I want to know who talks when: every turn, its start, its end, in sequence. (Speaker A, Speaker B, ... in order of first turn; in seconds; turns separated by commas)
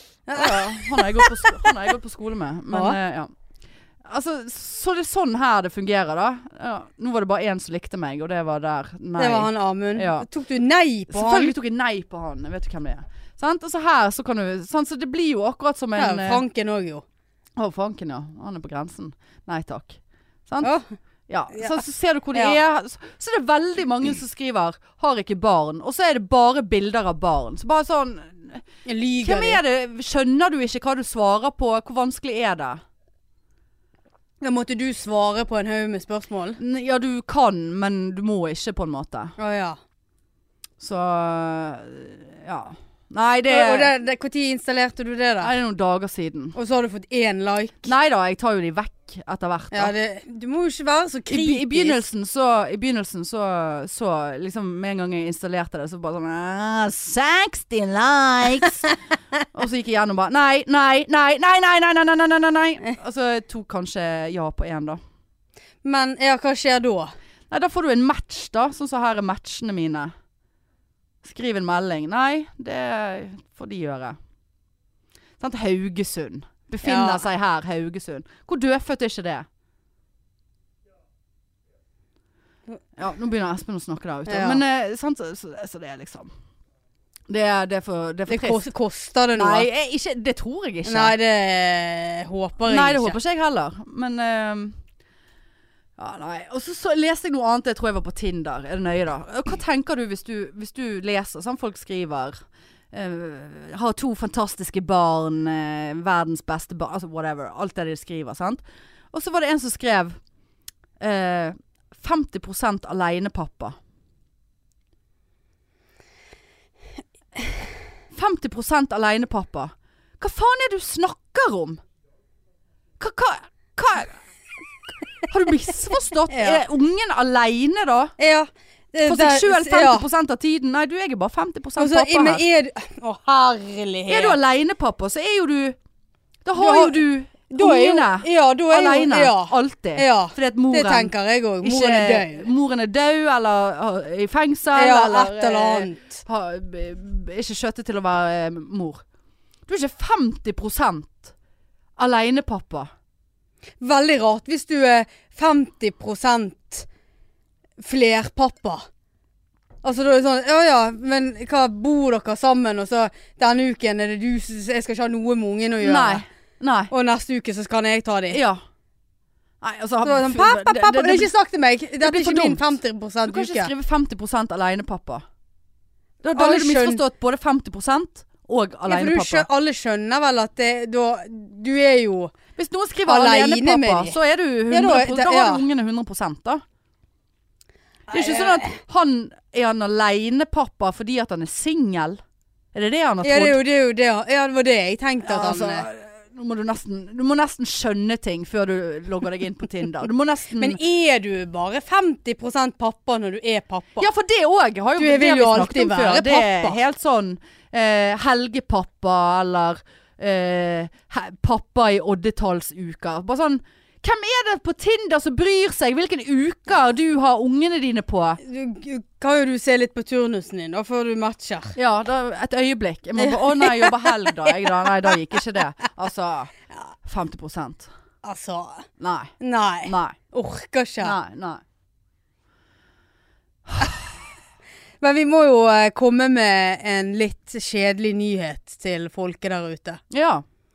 Speaker A: 0.3-1.7, Speaker B: 0.3-3.3, Speaker A: 2.7-3.0, Speaker B: 4.0-10.2, Speaker A: 9.2-11.5, Speaker B: 11.1-16.4, Speaker A: 15.9-17.0, Speaker B: 17.6-20.7, Speaker A: 20.6-20.9, Speaker B: 21.3-28.6, Speaker A: 21.5-21.8, Speaker A: 28.8-29.6, Speaker B: 29.2-32.8, Speaker A: 34.4-36.6, Speaker B: 36.6-39.3, Speaker A: 39.4-39.8, Speaker B: 40.8-43.9, Speaker A: 43.5-45.5, Speaker B: 45.4-46.5, Speaker A: 46.5-47.9, Speaker B: 47.9-49.9, Speaker A: 49.7-52.0, Speaker B: 51.3-58.9, Speaker B: 59.5-65.0, Speaker A: 65.8-67.1, Speaker B: 67.5-70.1, Speaker B: 71.2-74.2, Speaker B: 75.4-79.5, Speaker A: 76.8-77.2, Speaker B: 83.0-86.3, Speaker A: 84.3-84.6, Speaker B: 87.3-88.6, Speaker A: 88.3-89.7, Speaker B: 89.3-91.1, Speaker A: 90.8-93.2, Speaker B: 92.6-94.8, Speaker B: 96.0-102.4, Speaker B: 102.9-110.2, Speaker B: 111.0-113.8, Speaker B: 118.1-121.8, Speaker B: 123.0-124.2, Speaker B: 125.2-128.1, Speaker A: 126.3-126.6, Speaker A: 128.2-130.1, Speaker B: 129.0-132.4, Speaker A: 131.8-134.4, Speaker B: 134.1-135.8, Speaker B: 136.4-149.0, Speaker A: 136.6-142.5, Speaker A: 144.7-146.2, Speaker B: 149.7-151.3, Speaker B: 152.0-152.9, Speaker A: 153.8-156.9, Speaker A: 157.8-158.9, Speaker A: 159.8-166.2, Speaker B: 165.8-166.9, Speaker A: 166.9-168.4, Speaker B: 168.3-168.6, Speaker B: 169.6-171.3, Speaker A: 170.0-173.7, Speaker B: 172.0-172.6, Speaker B: 173.2-175.2, Speaker B: 176.2-179.5, Speaker A: 176.3-177.0, Speaker A: 178.8-182.3, Speaker B: 182.6-186.6, Speaker A: 183.0-184.2, Speaker A: 184.7-185.6, Speaker A: 188.1-188.8, Speaker B: 188.1-192.2, Speaker B: 192.7-193.6, Speaker A: 193.2-195.9, Speaker B: 195.2-200.8, Speaker A: 200.6-204.1, Speaker B: 204.0-218.4, Speaker A: 205.0-206.8, Speaker A: 218.4-221.8, Speaker B: 221.8-226.5, Speaker A: 223.2-224.1, Speaker B: 227.0-227.9, Speaker A: 228.2-228.9, Speaker B: 229.0-230.2, Speaker A: 229.4-231.2, Speaker B: 231.0-231.6, Speaker B: 233.7-234.0, Speaker A: 235.0-240.0, Speaker B: 240.1-240.4